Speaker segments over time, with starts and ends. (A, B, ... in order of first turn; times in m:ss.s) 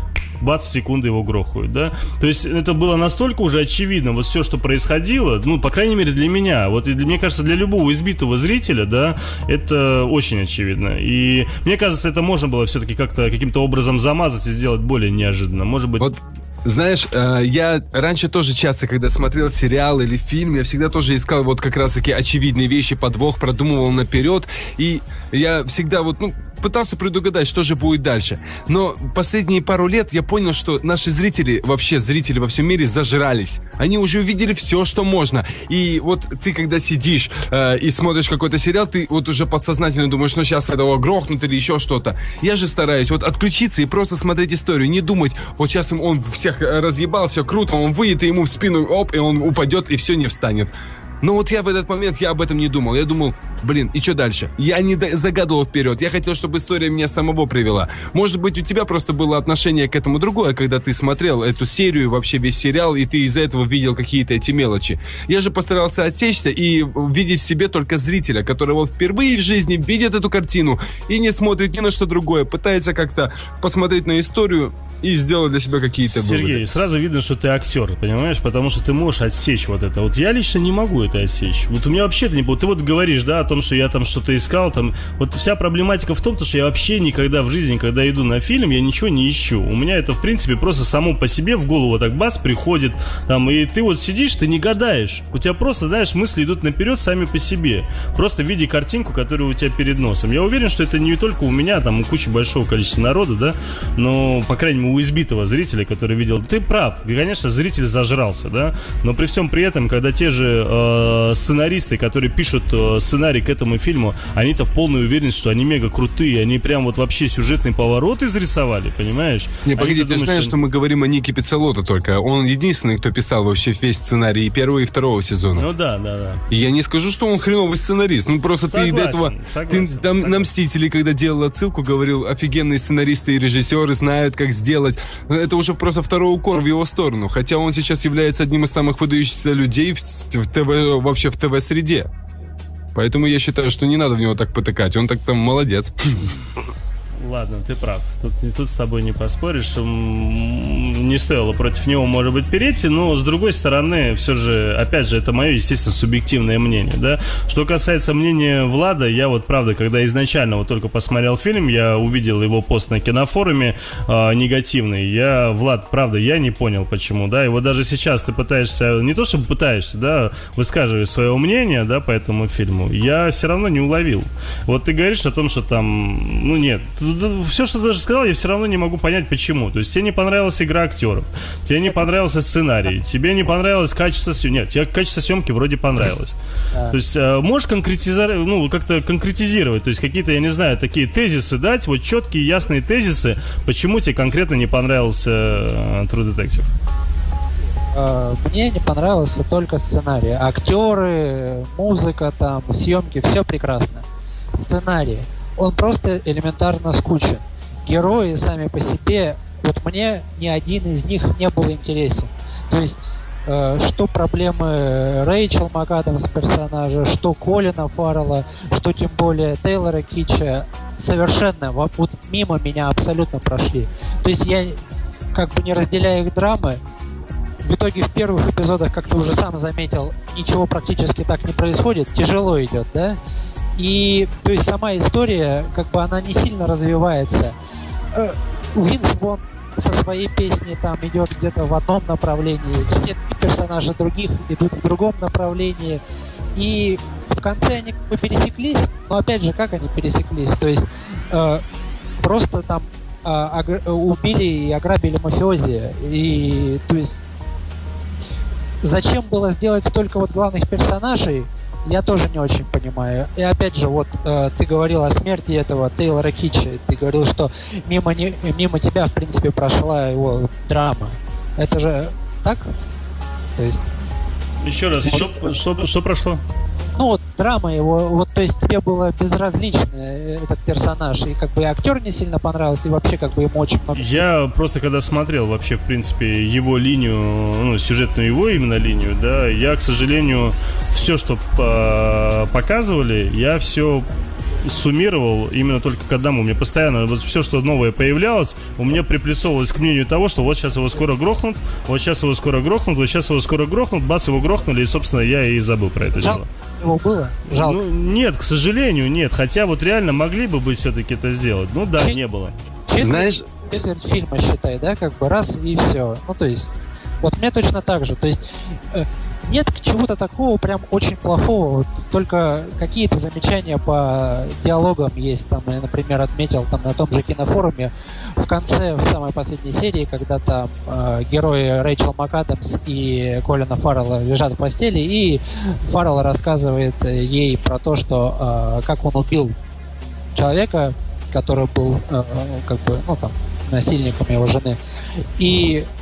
0:00.4-0:16.1 A
0:16.0-1:16.6 B
1:16.1-2:00.5 A
1:59.6-2:05.7 B
2:05.6-2:06.4 A
2:06.5-2:22.1 B
2:08.7-2:10.5 A
2:23.0-2:26.3 B
2:27.2-3:06.4 A
3:06.9-3:16.7 A
3:17.9-3:24.1 C
3:24.6-3:44.8 C
3:45.3-3:46.8 C
3:47.6-3:53.2 C
3:53.8-3:57.5 C
3:58.1-4:06.0 C
4:06.6-4:11.6 C
4:12.2-4:17.2 C
4:18.8-4:32.7 C
4:33.6-4:33.8 C
4:34.6-4:36.4 A
4:35.0-4:35.4 C
4:37.0-4:44.3 C
4:43.9-4:54.1 A
4:54.6-5:06.4 A
5:06.2-5:07.8 C
5:07.5-5:12.6 A
5:12.9-5:16.7 C
5:13.0-5:13.4 B
5:17.2-5:39.6 C
5:40.4-5:44.8 C
5:45.4-5:45.9 C